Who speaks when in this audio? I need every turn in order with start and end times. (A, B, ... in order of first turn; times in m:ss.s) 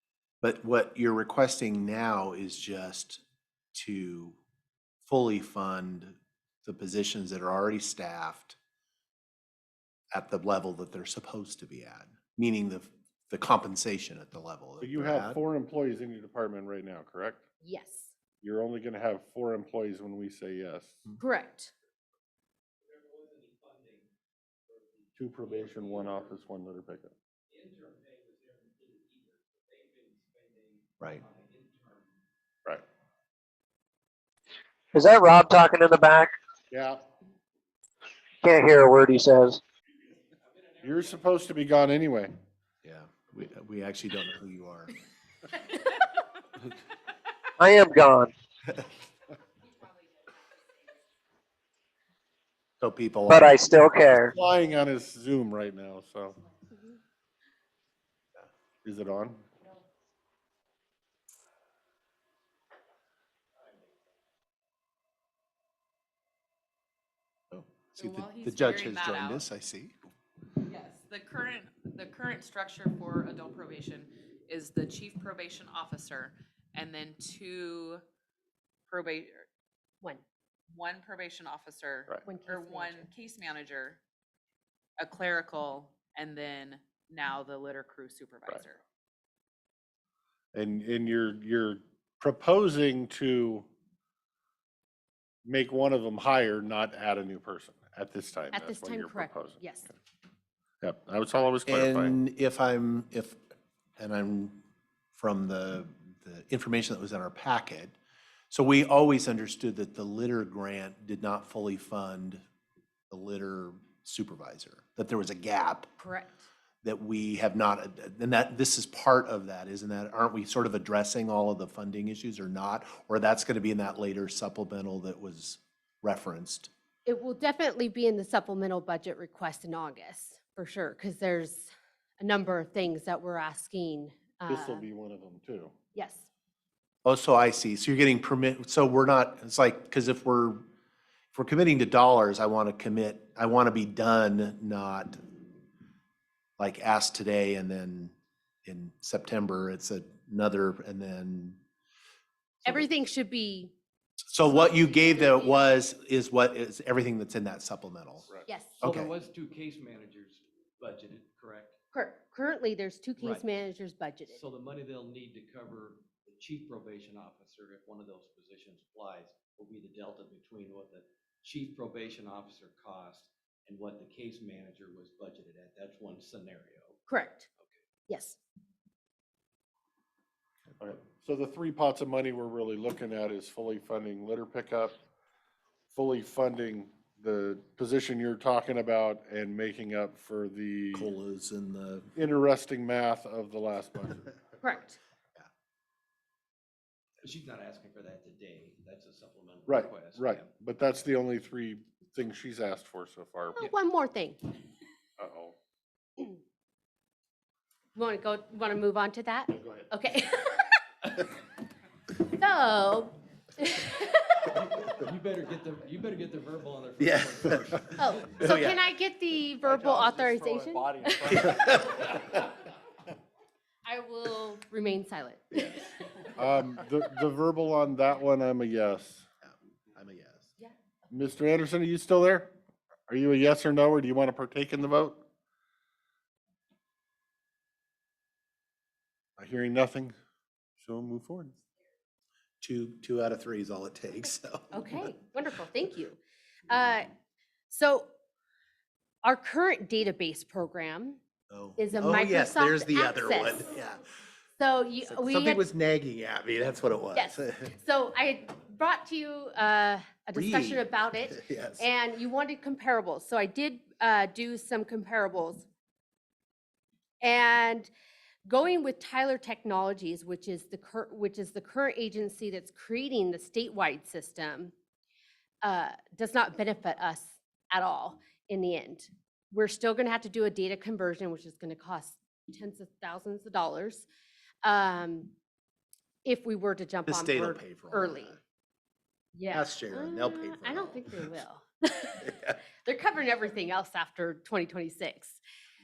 0:00.4-0:03.2 A
0:03.7-0:04.4 A
0:05.1-0:08.6 A
0:10.1-0:15.4 A
0:14.8-0:17.4 B
0:17.6-0:18.1 C
0:18.4-0:21.1 B
0:21.2-0:21.7 C
0:22.8-0:24.1 D
0:24.7-0:26.4 D
0:25.2-0:27.1 B
0:27.5-0:32.2 D
0:34.9-0:36.3 E
0:36.7-0:37.0 B
0:38.4-0:39.6 E
0:40.6-0:41.2 D
0:40.8-0:42.3 B
0:42.8-0:44.9 A
0:47.6-0:48.3 E
0:52.8-0:53.6 A
0:53.3-0:54.3 E
0:54.3-0:56.4 B
0:56.7-0:57.0 C
0:58.8-0:59.5 B
1:07.5-1:10.0 A
1:08.0-1:09.5 F
1:10.6-1:18.0 F
1:18.9-1:19.5 F
1:20.7-1:24.0 F
1:22.2-1:23.1 C
1:25.0-1:28.8 F
1:30.5-1:33.7 B
1:35.4-1:39.9 B
1:38.5-1:39.9 C
1:40.8-1:42.2 B
1:41.7-1:43.4 A
1:44.0-1:44.6 A
1:45.1-1:48.0 A
1:48.5-1:52.4 A
1:53.1-1:55.9 A
1:56.0-1:56.5 C
1:56.8-2:06.7 A
2:07.1-2:14.8 C
2:14.5-2:15.7 B
2:15.9-2:16.3 C
2:17.0-2:20.6 A
2:21.3-2:25.2 A
2:26.6-2:28.1 A
2:28.6-2:31.6 A
2:32.6-2:32.9 A
2:32.6-2:33.7 C
2:34.3-2:38.3 A
2:34.4-2:35.8 C
2:38.5-2:38.8 C
2:38.8-2:41.8 D
2:38.8-2:39.2 A
2:41.9-2:44.4 C
2:43.2-2:43.4 D
2:44.3-2:57.1 D
2:57.1-2:57.5 C
2:58.1-2:58.4 C
3:00.8-3:05.0 B
3:05.9-3:11.1 B
3:10.9-3:12.1 A
3:12.2-3:14.4 B
3:14.6-3:15.0 C
3:17.2-3:20.5 D
3:19.7-3:23.7 B
3:23.6-3:24.4 C
3:25.2-3:25.5 B
3:28.0-3:30.8 C
3:29.5-3:29.9 B
3:32.3-3:34.5 C
3:34.5-3:38.1 D
3:37.0-3:37.8 A
3:38.0-3:41.5 C
3:38.4-3:38.8 A
3:39.6-3:42.2 D
3:41.4-3:42.4 A
3:43.8-3:45.9 C
3:46.4-3:49.3 B
3:49.4-3:50.5 A
3:51.1-3:52.5 B
3:53.1-3:55.2 B
3:59.4-4:00.2 B
4:00.8-4:01.6 B
4:02.6-4:05.1 A
4:04.7-4:07.1 C
4:07.7-4:08.1 C
4:09.2-4:11.2 C
4:11.5-4:14.0 A
4:11.8-4:13.7 C
4:14.6-4:15.6 C
4:15.0-4:17.7 A
4:17.1-4:25.7 C
4:20.3-4:21.9 A
4:27.2-4:27.9 C
4:28.5-4:34.7 C
4:35.6-4:44.1 C
4:44.6-4:45.3 C
4:46.2-4:48.4 C
4:47.1-4:48.4 A
4:49.3-4:52.3 C
4:49.5-4:51.4 A
4:52.2-4:52.6 A
4:52.8-4:55.4 C